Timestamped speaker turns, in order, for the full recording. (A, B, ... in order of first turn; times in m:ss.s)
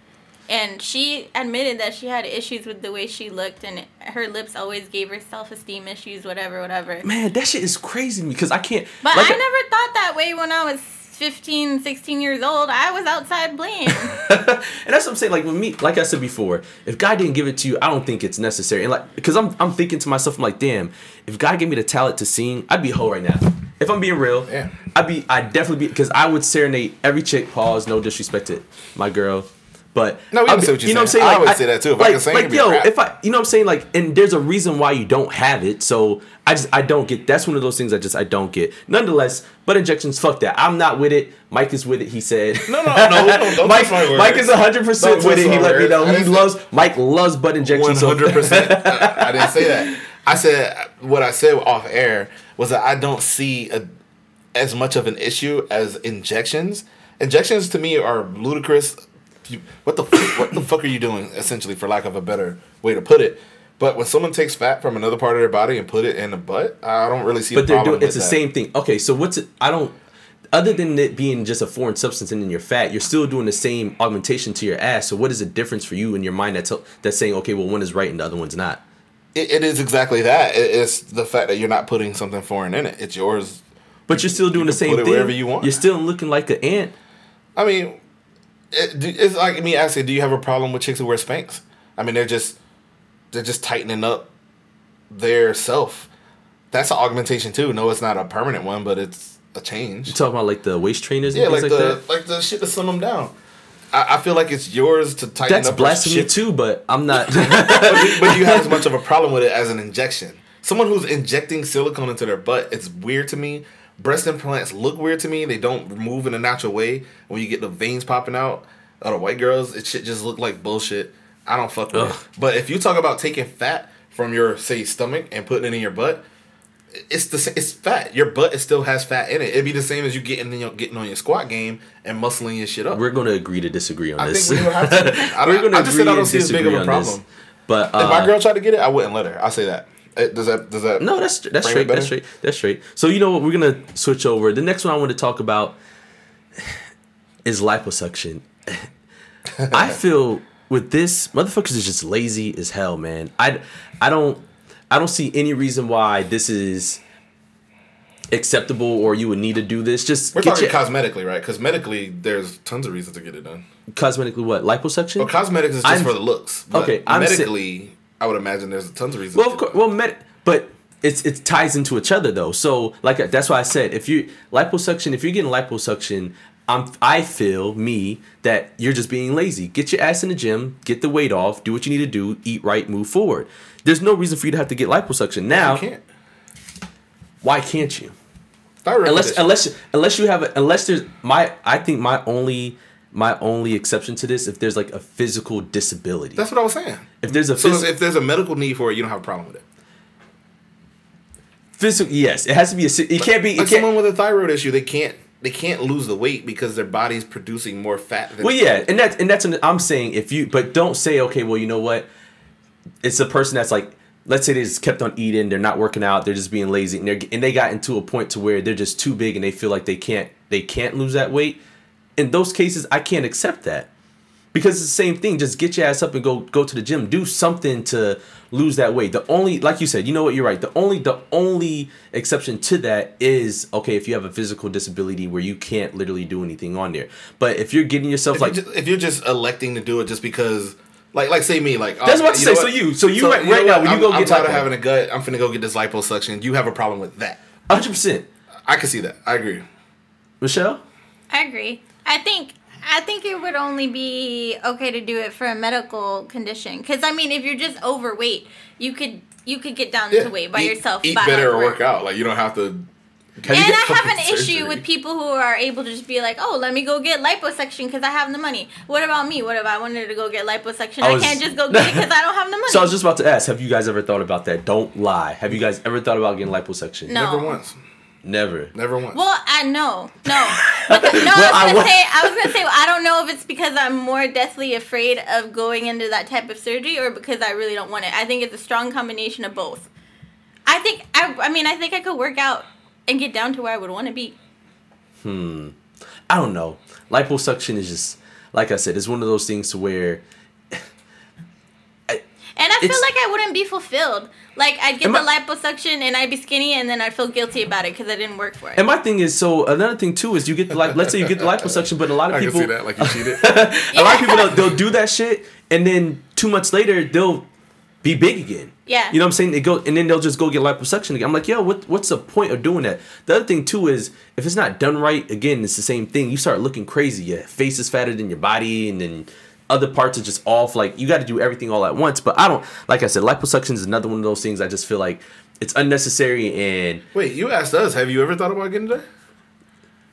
0:00.5-0:07.0 A
0:07.0-0:09.4 B
0:09.0-0:14.2 A
0:13.9-0:50.0 B
0:24.5-0:24.8 C
0:30.3-0:32.9 C
0:42.7-0:46.5 C
0:47.6-0:53.8 C
0:54.5-1:08.4 C
1:07.5-1:10.0 B
1:10.5-1:18.8 B
1:19.4-1:25.8 C
1:24.1-1:26.9 B
1:27.6-1:28.0 C
1:28.7-1:32.6 C
1:33.3-1:34.3 C
1:35.1-1:36.1 C
1:36.7-1:40.2 C
1:40.1-1:42.0 B
1:41.3-1:43.3 C
1:43.9-1:46.4 C
1:45.5-1:48.8 B
1:47.2-2:06.2 C
2:01.9-2:02.2 B
2:06.9-2:13.0 C
2:12.9-2:18.3 B
2:14.2-2:17.2 C
2:18.0-2:22.1 C
2:21.0-2:25.8 B
2:27.4-2:28.9 B
2:29.5-2:30.0 C
2:29.7-2:37.0 B
2:38.3-2:40.8 B
2:40.3-2:43.6 C
2:43.9-2:45.3 B
2:45.2-2:49.8 C
2:45.8-2:46.2 B
2:46.7-2:47.5 B
2:49.3-3:05.8 B
3:05.6-3:06.0 C
3:07.4-3:08.2 B
3:08.8-3:09.6 C
3:09.0-3:16.4 B
3:16.4-3:19.6 C
3:17.2-3:17.9 B
3:21.8-3:23.9 B
3:23.2-3:28.6 C
3:28.4-3:32.1 B
3:33.0-3:41.6 B
3:42.2-3:43.9 B
3:44.5-3:58.6 B
3:58.3-4:07.4 C
4:02.0-4:04.7 B
4:07.7-4:08.3 B
4:08.7-4:09.6 C
4:10.4-4:10.8 B
4:11.3-4:21.8 A
4:20.1-4:22.9 C
4:23.4-4:24.8 C
4:23.5-4:32.9 A
4:31.0-4:32.1 B
4:32.7-4:37.2 B
4:37.1-4:37.6 A
4:37.1-4:37.8 C
4:38.2-4:38.7 B
4:38.7-4:39.2 C
4:39.1-4:49.9 A
4:40.5-4:42.6 B
4:50.7-4:54.4 A
4:55.2-4:55.8 B
4:56.3-5:00.8 B
5:02.6-5:08.9 A
5:02.8-5:03.1 B
5:08.8-5:17.5 B
5:10.9-5:13.6 C
5:13.9-5:14.7 A
5:18.0-5:37.0 B
5:18.9-5:19.2 A
5:37.1-5:39.0 C